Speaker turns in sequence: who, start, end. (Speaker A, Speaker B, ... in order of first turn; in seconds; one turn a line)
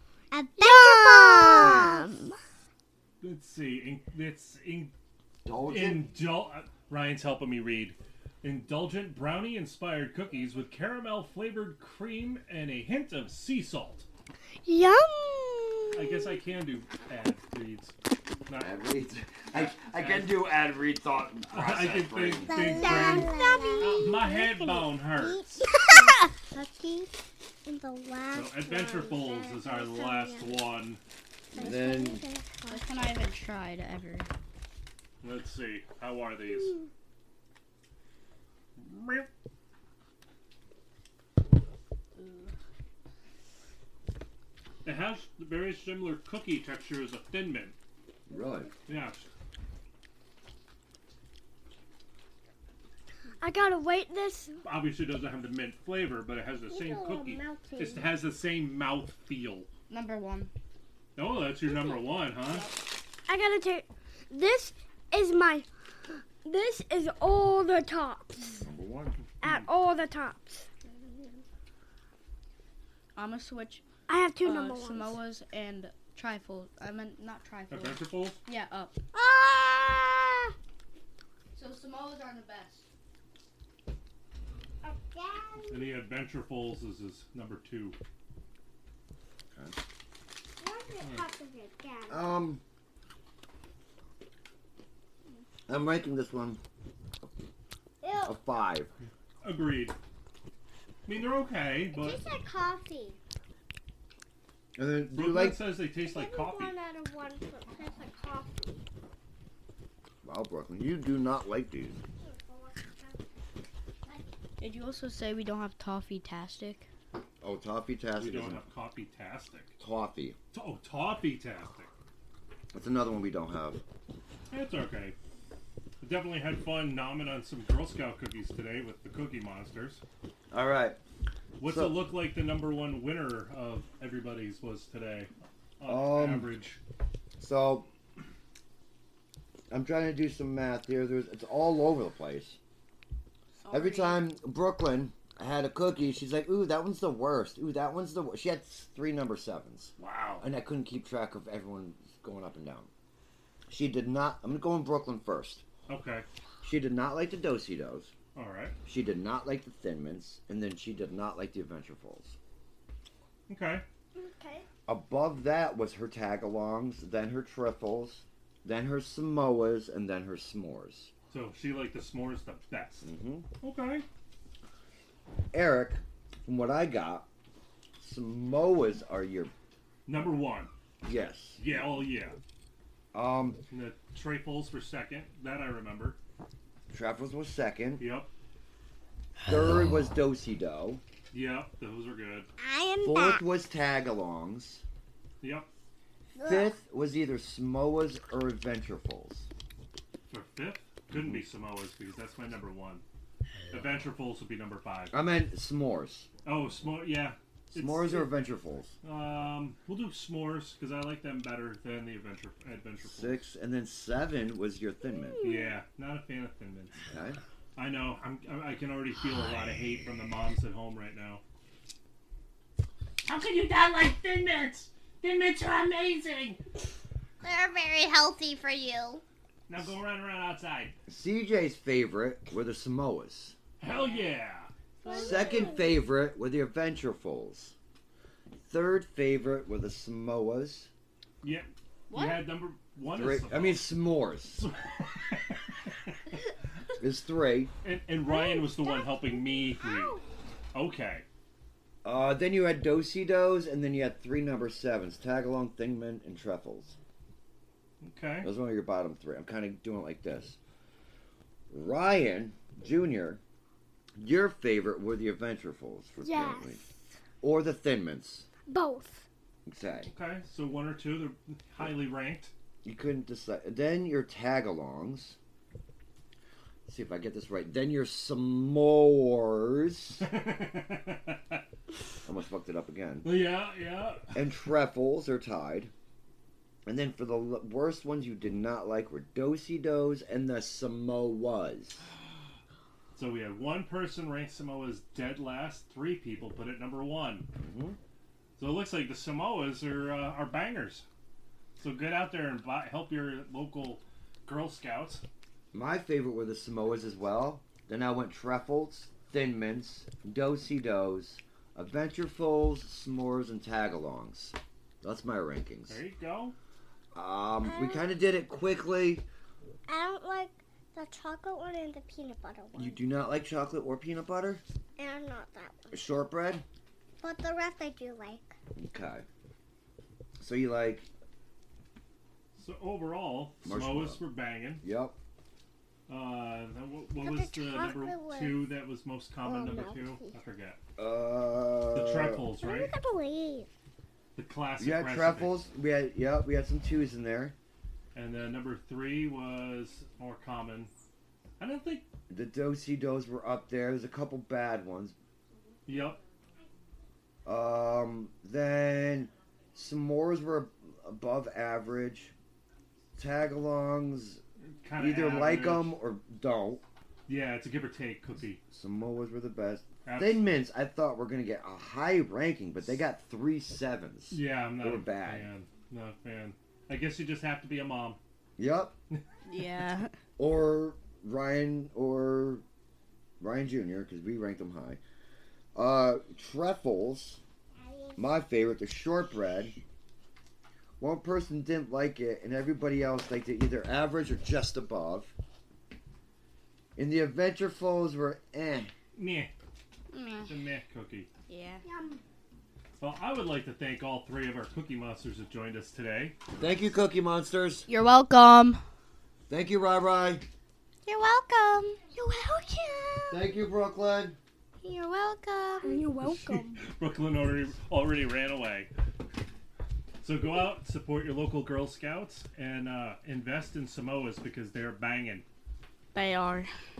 Speaker A: 0.3-2.0
Speaker B: 0.6-2.4
Speaker C: 3.2-4.9
Speaker D: 5.4-6.0
Speaker C: 5.6-14.1
Speaker B: 14.6-16.3
Speaker C: 15.9-17.9
Speaker C: 18.5-18.8
Speaker D: 18.6-23.2
Speaker C: 19.5-20.4
Speaker C: 21.5-25.5
Speaker A: 22.4-27.1
Speaker B: 23.1-24.1
Speaker B: 25.7-26.2
Speaker A: 27.6-30.6
Speaker C: 28.3-31.0
Speaker A: 31.5-33.1
Speaker D: 31.6-32.2
Speaker E: 32.6-34.3
Speaker C: 35.2-36.8
Speaker C: 38.8-39.3
Speaker E: 42.1-42.5
Speaker C: 44.8-47.8
Speaker D: 48.3-48.7
Speaker A: 48.3-48.7
Speaker C: 48.9-49.3
Speaker B: 53.4-54.6
Speaker C: 54.6-59.7
Speaker A: 56.7-58.1
Speaker E: 59.9-60.5
Speaker C: 61.1-62.7
Speaker E: 62.4-62.8
Speaker B: 63.3-65.7
Speaker B: 66.4-68.7
Speaker D: 68.6-69.2
Speaker B: 69.4-70.7
Speaker E: 73.1-73.8
Speaker B: 74.1-75.2
Speaker E: 74.4-78.9
Speaker C: 77.7-78.4
Speaker A: 79.1-80.4
Speaker E: 81.5-82.9
Speaker A: 84.8-86.0
Speaker C: 85.7-88.0
Speaker A: 90.6-92.2
Speaker C: 91.0-91.2
Speaker D: 92.1-92.6
Speaker D: 95.7-96.6
Speaker A: 98.0-98.4
Speaker D: 98.2-98.9
Speaker C: 99.4-99.9
Speaker C: 101.0-102.2
Speaker A: 101.9-103.2
Speaker D: 104.7-105.7
Speaker C: 105.1-106.7
Speaker A: 106.0-108.8
Speaker D: 110.2-112.0
Speaker A: 112.2-113.2
Speaker E: 114.6-116.9
Speaker D: 117.4-118.6
Speaker C: 118.2-119.7
Speaker D: 119.8-120.4
Speaker C: 120.5-121.9
Speaker D: 122.7-123.8
Speaker C: 124.5-125.2
Speaker C: 126.0-130.0
Speaker D: 130.5-131.0
Speaker C: 131.6-136.8
Speaker D: 131.6-132.0
Speaker D: 135.8-136.5
Speaker D: 137.4-137.9
Speaker D: 139.7-142.6
Speaker E: 143.6-144.2
Speaker D: 143.7-152.9
Speaker C: 150.0-150.4
Speaker D: 153.7-155.6
Speaker C: 155.9-156.2
Speaker D: 156.6-158.1
Speaker C: 158.3-158.8
Speaker D: 158.8-162.4
Speaker C: 163.5-163.8
Speaker B: 164.2-164.6
Speaker D: 164.8-171.1
Speaker C: 171.3-174.0
Speaker D: 173.0-173.5
Speaker D: 175.5-177.3
Speaker D: 178.0-179.5
Speaker C: 180.1-180.7
Speaker D: 181.0-181.9
Speaker C: 181.6-182.4
Speaker D: 183.1-183.6
Speaker C: 183.7-186.2
Speaker D: 186.9-188.1
Speaker C: 188.0-188.3
Speaker D: 189.4-191.0
Speaker C: 191.3-192.5
Speaker A: 192.6-193.4
Speaker D: 193.0-194.8
Speaker C: 195.4-195.7
Speaker A: 196.3-196.7
Speaker D: 196.4-199.5
Speaker C: 200.3-203.0
Speaker D: 201.1-201.4
Speaker C: 203.7-205.1
Speaker D: 205.1-206.3
Speaker C: 206.4-208.3
Speaker D: 207.7-208.9
Speaker C: 209.0-213.4
Speaker D: 213.0-215.4
Speaker C: 215.4-217.1
Speaker D: 217.1-217.4
Speaker C: 217.8-221.4
Speaker C: 223.2-226.6
Speaker A: 227.4-229.2
Speaker C: 229.7-230.9
Speaker D: 231.1-233.6
Speaker C: 233.8-234.7
Speaker E: 235.0-235.7
Speaker A: 235.0-235.9
Speaker D: 235.1-237.7
Speaker D: 238.6-240.9
Speaker C: 241.4-243.9
Speaker E: 242.1-242.5
Speaker D: 243.1-244.6
Speaker C: 244.5-245.9
Speaker D: 247.0-247.7
Speaker C: 247.8-250.2
Speaker C: 250.7-251.2
Speaker D: 252.0-257.0
Speaker C: 258.0-258.5
Speaker D: 258.4-260.6
Speaker D: 261.7-263.4
Speaker D: 264.2-266.8
Speaker B: 266.2-266.7
Speaker D: 267.4-268.5
Speaker B: 268.7-269.2
Speaker D: 269.6-270.1
Speaker C: 270.0-272.5
Speaker D: 272.8-275.4
Speaker D: 276.9-280.3
Speaker C: 280.2-281.6
Speaker D: 282.2-283.3
Speaker C: 283.2-284.3
Speaker D: 284.3-285.9
Speaker D: 286.9-292.0
Speaker C: 293.1-297.5
Speaker D: 297.6-298.0
Speaker C: 298.6-301.0
Speaker C: 301.8-305.2
Speaker D: 305.7-316.0
Speaker C: 315.9-316.5
Speaker D: 317.1-319.2
Speaker A: 317.6-318.1
Speaker A: 319.9-323.0
Speaker D: 322.8-324.6
Speaker A: 325.0-325.9
Speaker D: 325.9-326.6
Speaker A: 327.2-328.5
Speaker D: 328.7-329.2
Speaker D: 330.4-331.1
Speaker C: 332.6-334.8
Speaker D: 333.6-334.2
Speaker D: 334.8-335.1
Speaker C: 336.1-340.8
Speaker A: 337.2-338.6
Speaker A: 339.4-340.3
Speaker D: 341.0-342.5
Speaker C: 341.9-342.9
Speaker A: 342.6-343.7
Speaker C: 344.3-345.6
Speaker D: 344.8-347.5
Speaker C: 348.1-350.9
Speaker C: 351.6-352.1
Speaker D: 352.3-355.1
Speaker C: 355.9-356.2
Speaker D: 357.4-362.3
Speaker D: 363.1-364.4
Speaker C: 364.8-366.0
Speaker D: 365.0-366.8
Speaker C: 367.3-368.6
Speaker D: 368.7-375.5
Speaker C: 370.0-370.5
Speaker C: 374.3-378.2
Speaker D: 378.6-378.9
Speaker E: 379.5-380.1
Speaker D: 380.4-382.6
Speaker D: 383.4-385.0
Speaker D: 385.7-387.4
Speaker A: 387.8-388.3
Speaker D: 388.2-389.8
Speaker D: 391.0-395.3
Speaker D: 396.9-398.9
Speaker C: 399.1-399.5
Speaker E: 400.1-400.5
Speaker C: 400.5-401.3
Speaker E: 401.5-401.8
Speaker B: 401.9-402.1
Speaker C: 403.0-406.3
Speaker D: 406.6-407.9
Speaker E: 407.9-408.8
Speaker D: 409.5-410.4
Speaker B: 411.1-413.4
Speaker D: 413.3-414.4
Speaker B: 414.8-415.1
Speaker E: 414.9-416.1
Speaker B: 415.8-416.8
Speaker C: 416.2-418.9
Speaker C: 420.2-425.4
Speaker E: 426.1-426.7